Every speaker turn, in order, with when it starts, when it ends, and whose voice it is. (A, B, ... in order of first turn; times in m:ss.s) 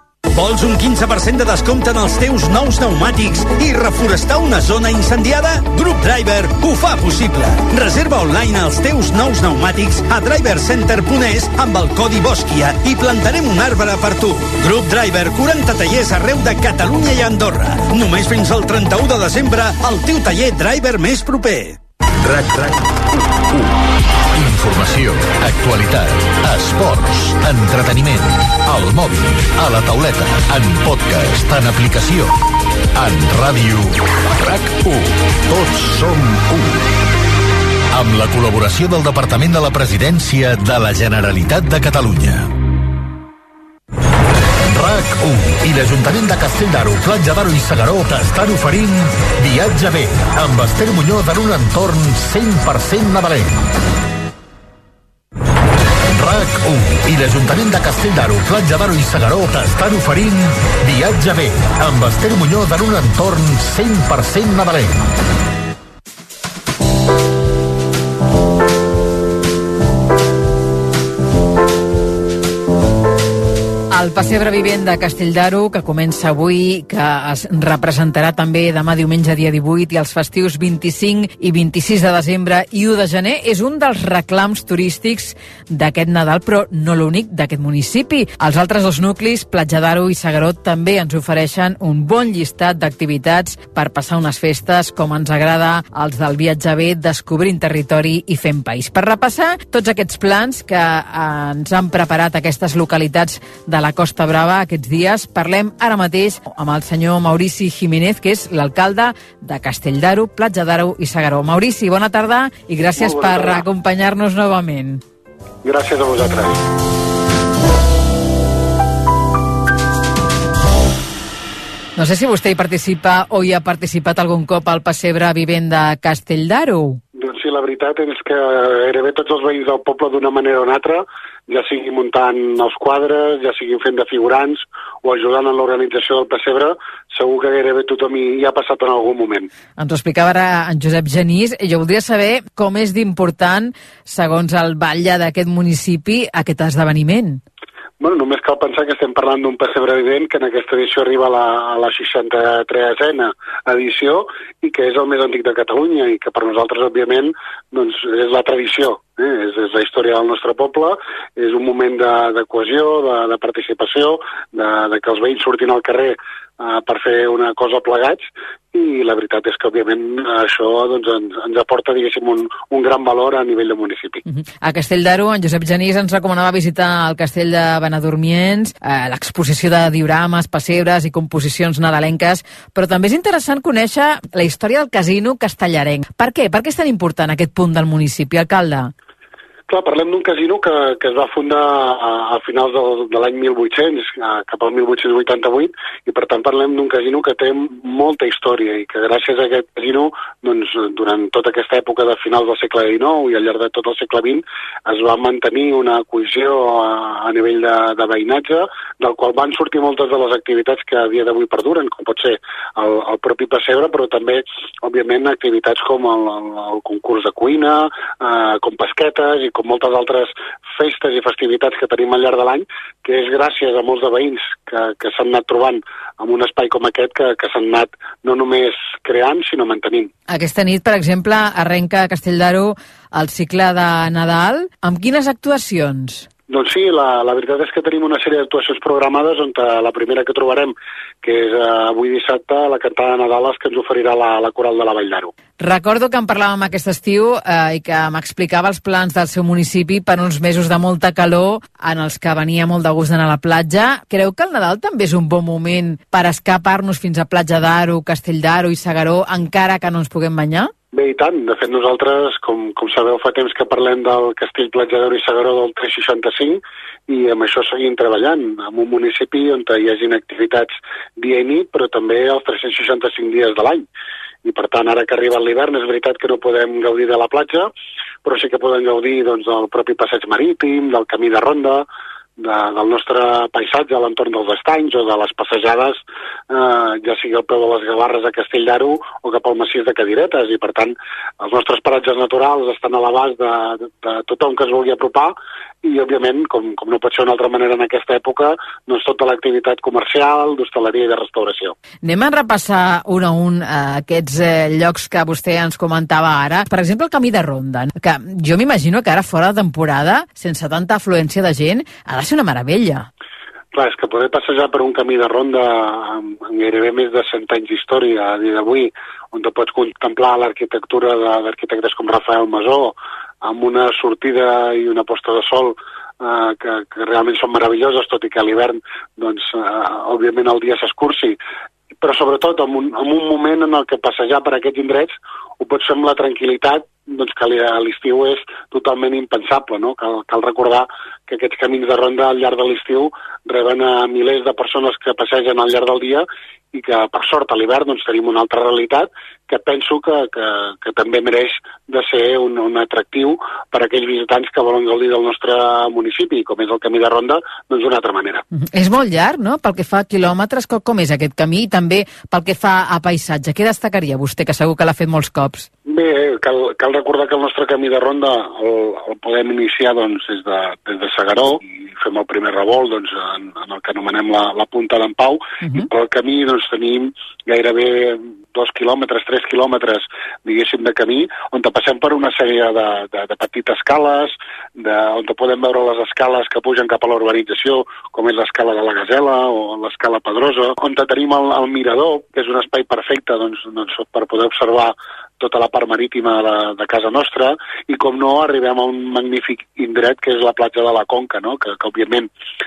0:00.3-0:21.8 A
0:22.2-0:22.9 B
0:24.3-0:32.3 B
0:33.0-0:36.8 B
0:37.9-0:42.5 B
0:44.7-0:53.7 B
0:56.1-1:05.1 B
1:13.9-1:55.0 C
1:53.0-1:53.6 D
1:55.6-1:56.6 D
2:02.0-2:07.0 C
2:07.2-2:19.5 D
2:19.8-2:27.4 C
2:28.0-2:54.2 D
2:54.3-3:08.9 C
3:09.7-3:50.1 D
3:50.3-3:56.3 C
3:56.5-4:05.3 D
4:05.6-4:20.7 C
4:20.9-4:33.9 D
4:34.4-4:37.7 D
4:38.2-4:41.9 D
4:42.4-5:01.8 D
5:02.0-5:13.1 C
5:13.7-5:31.4 D
5:32.0-5:58.4 D
5:58.5-6:05.7 C
6:05.9-6:42.3 D